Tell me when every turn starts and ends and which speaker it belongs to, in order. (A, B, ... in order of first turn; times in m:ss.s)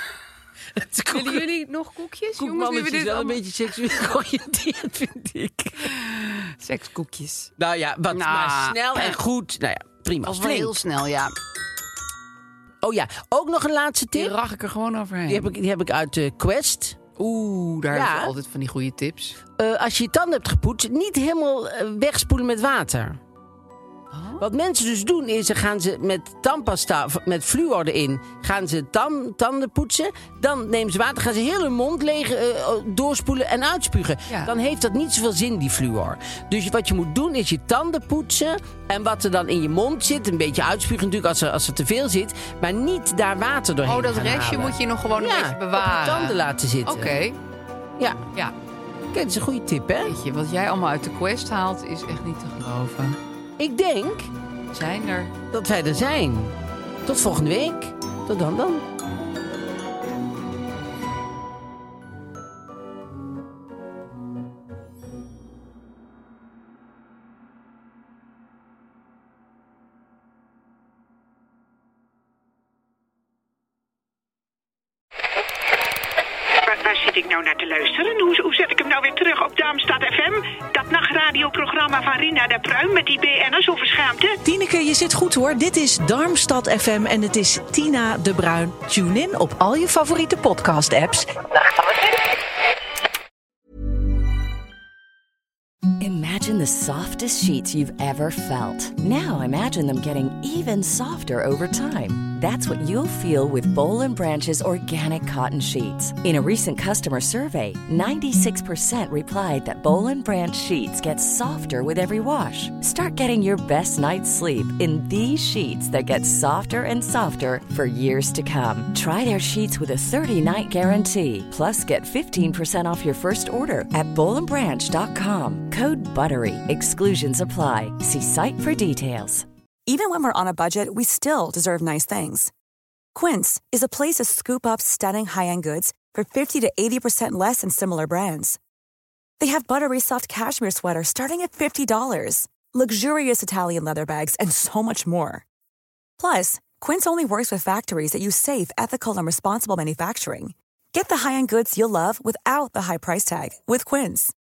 0:00.7-0:01.4 A
0:01.1-0:03.4 B
0:02.4-0:06.0 A
0:05.8-0:07.5 B
0:07.6-0:10.7 A
0:08.1-0:09.2 B
0:10.2-0:11.3 B
0:12.8-0:14.3 A
0:14.1-0:15.5 B
0:15.3-0:17.0 A
0:17.2-0:19.4 B
0:17.9-0:18.3 A
0:19.6-0:23.2 A
0:24.1-0:24.4 B
0:24.4-0:47.2 A
0:43.8-0:47.4 B
0:48.0-0:48.2 A
0:49.1-0:50.2 A
0:50.0-0:53.2 B
0:53.6-0:54.3 A
0:54.7-0:55.3 B
0:55.5-0:58.8 A
1:16.6-1:24.4 C
1:24.4-1:32.0 D
1:36.0-2:09.5 E
2:09.9-2:12.5 F
2:13.1-2:18.6 F
2:19.4-2:25.4 F
2:26.2-2:34.3 F